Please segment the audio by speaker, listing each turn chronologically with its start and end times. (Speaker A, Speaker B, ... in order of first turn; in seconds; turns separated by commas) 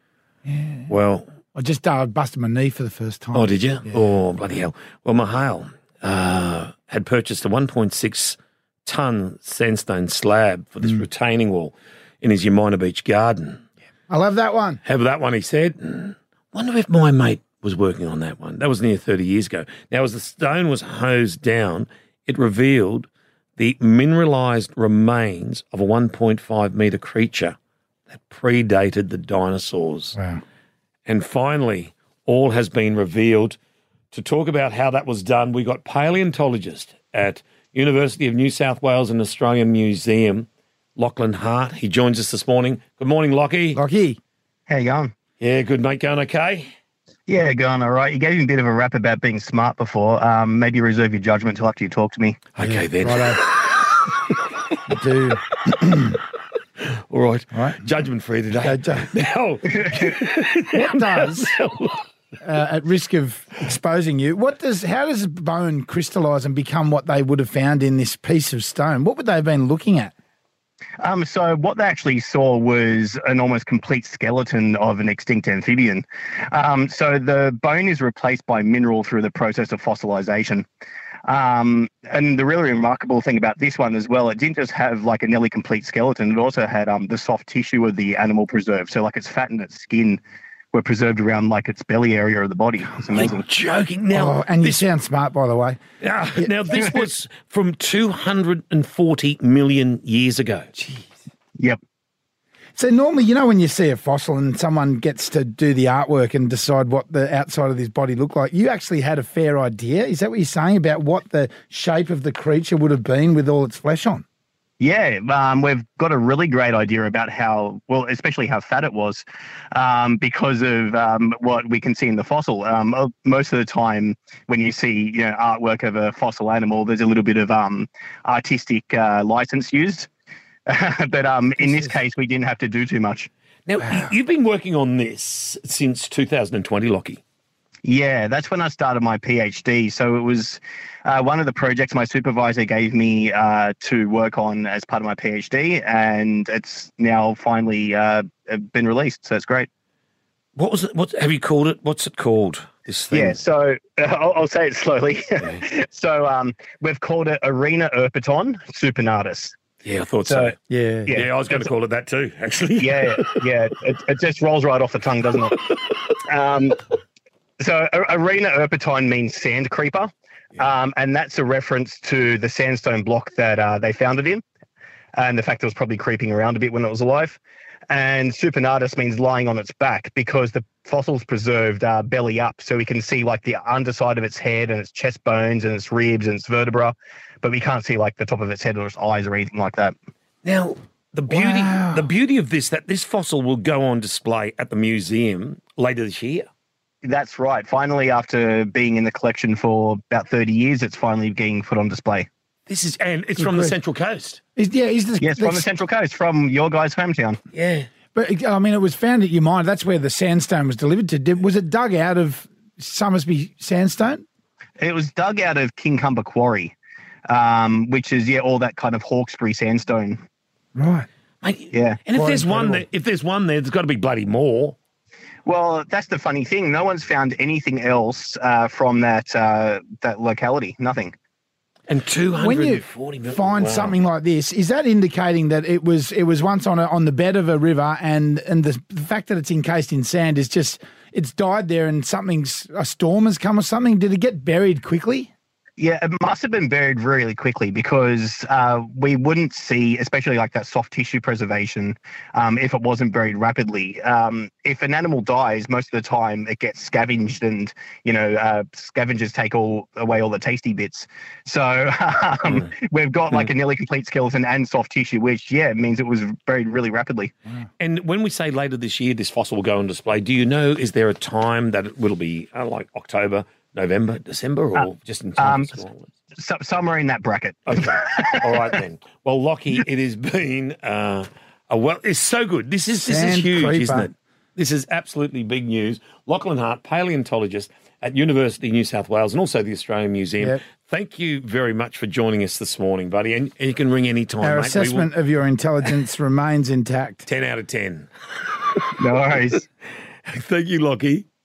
Speaker A: 0.5-0.9, Speaker B: 0.9-1.3, Speaker A: 1.6-4.0, Speaker B: 3.3-13.6, Speaker A: 14.1-14.8, Speaker B: 14.8-27.6, Speaker B: 28.1-30.1, Speaker A: 30.1-30.4, Speaker B: 31.1-33.6, Speaker B: 34.1-43.8, Speaker A: 43.8-44.2, Speaker C: 44.7-45.1, Speaker B: 45.4-46.7, Speaker C: 47.3-52.4, Speaker B: 52.6-54.1, Speaker A: 52.6-53.4, Speaker A: 54.9-56.1, Speaker B: 57.1-62.0, Speaker A: 57.5-57.8, Speaker A: 58.6-59.1, Speaker A: 60.7-61.6, Speaker A: 62.4-70.1, Speaker C: 71.0-80.7, Speaker C: 81.3-90.2, Speaker C: 90.7-93.5, Speaker B: 93.2-94.9, Speaker A: 94.1-95.8, Speaker B: 96.0-100.7, Speaker A: 102.8-114.2, Speaker C: 114.8-130.1, Speaker C: 130.7-133.3, Speaker B: 133.7-137.2, Speaker C: 137.8-149.7, Speaker B: 150.6-153.4, Speaker C: 153.1-159.6, Speaker B: 159.8-160.6, Speaker C: 160.3-160.6, Speaker A: 160.7-161.2, Speaker C: 161.1-161.7, Speaker B: 161.1-163.3, Speaker C: 162.8-165.6, Speaker C: 166.2-166.8, Speaker C: 167.6-174.4, Speaker C: 175.2-177.4, Speaker C: 177.9-189.9, Speaker B: 190.4-196.5, Speaker A: 191.3-192.0, Speaker C: 197.0-202.3, Speaker B: 202.7-204.4, Speaker A: 203.4-203.8, Speaker A: 204.6-205.7, Speaker C: 205.2-207.4, Speaker B: 207.5-207.9, Speaker A: 208.2-214.2, Speaker C: 214.8-216.7, Speaker C: 217.3-220.2, Speaker A: 220.8-221.1, Speaker B: 221.4-224.8, Speaker C: 221.7-222.0, Speaker A: 222.1-222.8, Speaker C: 225.5-231.1, Speaker B: 231.9-234.0, Speaker A: 232.4-245.3, Speaker C: 245.8-267.3, Speaker B: 267.8-276.1, Speaker C: 275.4-275.8, Speaker C: 276.4-278.8, Speaker B: 277.7-295.1, Speaker A: 283.0-284.1, Speaker A: 294.4-297.3, Speaker B: 297.3-298.1, Speaker C: 299.0-299.7, Speaker B: 300.3-301.3